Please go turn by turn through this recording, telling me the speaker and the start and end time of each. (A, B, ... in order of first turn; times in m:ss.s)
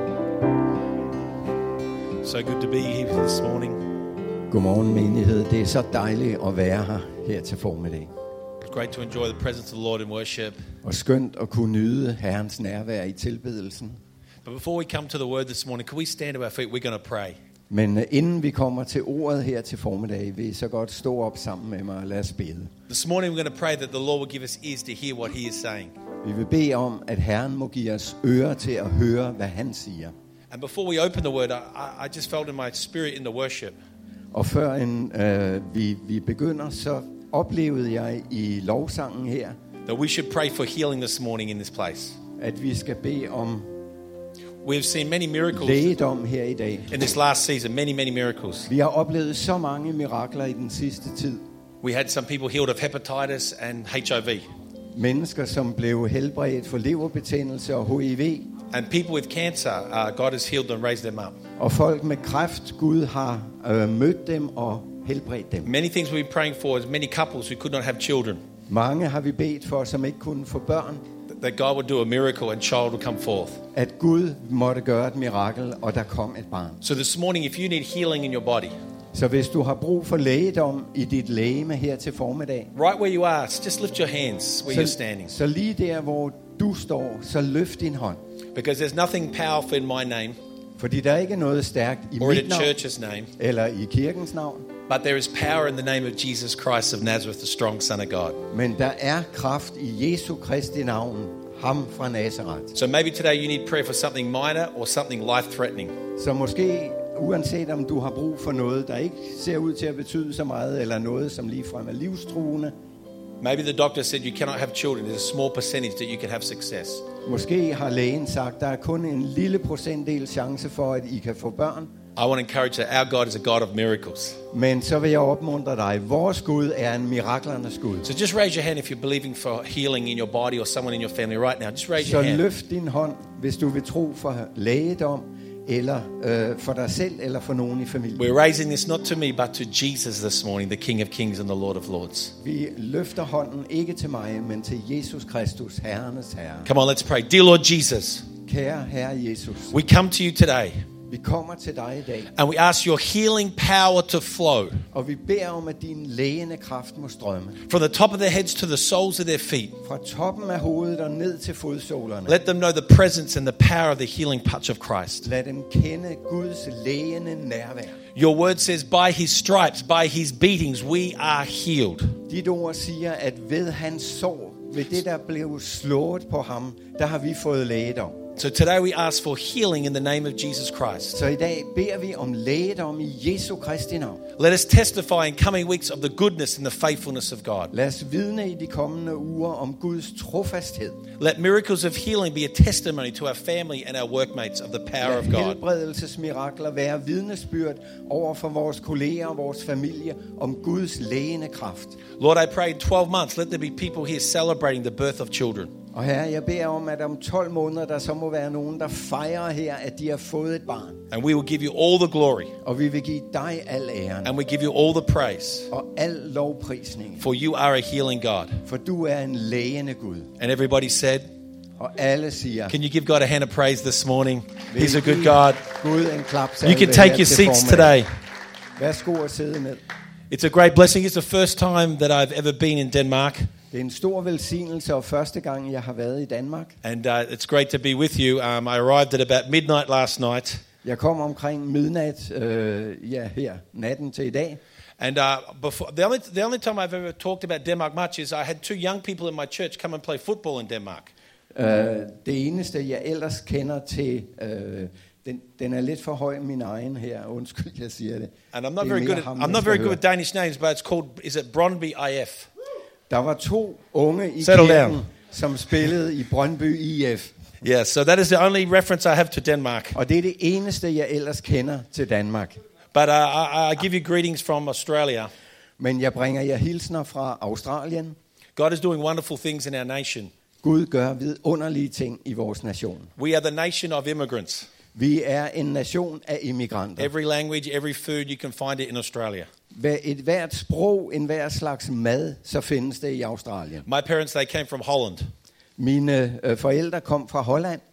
0:02.2-0:03.8 A
0:04.5-0:08.1 B
0:08.6-0:10.6 A
0:10.8-0:14.0 B
0:14.4-0:17.4 A
0:17.7-0:22.7 B
0:22.9-0:25.9 A
0:26.2-0:30.1 B
0:30.5-0:33.8 A
0:34.3-0:39.6 B
0:39.8-0:42.2 A
0:42.4-0:43.7 B
0:44.6-0:46.0 A
0:45.5-0:47.0 B
0:46.9-0:48.7 A
0:48.7-0:51.4 B
0:51.8-0:54.4 A
0:54.9-0:58.5 B
0:58.7-1:01.4 A
1:01.6-1:05.7 B
1:05.6-1:08.4 A
1:08.7-1:11.0 B
1:11.3-1:13.6 A
1:13.7-1:16.8 B
1:16.8-1:18.7 A
1:19.1-1:22.7 B
1:22.7-1:25.3 A
1:24.7-1:28.2 B
1:28.5-1:30.4 A
1:30.8-1:32.7 B
1:32.2-1:33.3 A
1:33.4-1:34.7 B
1:34.9-1:38.4 A
1:38.5-1:42.7 B
1:42.7-1:45.9 A
1:46.2-1:52.7 B
1:53.4-1:57.1 A
1:57.2-2:01.9 B
2:02.2-2:04.4 A
2:04.5-2:08.1 B
2:08.0-2:12.4 A
2:12.0-2:18.3 B
2:18.2-2:22.3 A
2:22.4-2:26.7 B
2:26.6-2:28.3 A
2:28.4-2:29.8 B
2:29.7-2:30.8 A
2:31.1-2:32.3 B
2:32.3-2:34.8 A
2:34.9-2:37.6 B
2:37.7-2:39.8 A
2:39.8-2:42.4 B
2:42.3-2:45.3 A
2:45.2-2:48.0 B
2:48.1-2:52.2 A
2:52.3-2:58.2 B
2:58.4-3:01.2 A
3:01.1-3:04.2 B
3:04.4-3:07.7 A
3:07.7-3:11.0 B
3:11.2-3:15.6 A
3:15.0-3:22.0 B
3:22.2-3:25.7 A
3:25.9-3:31.0 B
3:31.1-3:32.5 A
3:32.6-3:34.3 B
3:34.2-3:35.7 A
3:35.7-3:37.2 B
3:37.2-3:38.6 A
3:38.6-3:40.3 B
3:40.4-3:41.3 A
3:41.8-3:42.7 B
3:42.7-3:45.6 A
3:44.7-3:48.0 B
3:46.6-3:48.1 A
3:48.8-3:49.8 B
3:50.3-3:53.5 A
3:53.7-3:56.7 B
3:56.8-4:00.6 A
4:00.8-4:04.6 B
4:05.0-4:11.1 A
4:11.5-4:20.0 B
4:18.5-4:22.5 A
4:23.1-4:27.3 B
4:24.4-4:25.0 A
4:27.6-4:30.0 A
4:29.9-4:32.6 B
4:32.9-4:35.3 A
4:35.8-4:38.2 B
4:38.6-4:40.3 A
4:40.6-4:43.1 B
4:43.2-4:44.7 A
4:44.9-4:47.1 B
4:47.0-4:49.5 A
4:49.7-4:53.8 B
4:53.8-4:55.2 A
4:55.8-4:57.8 B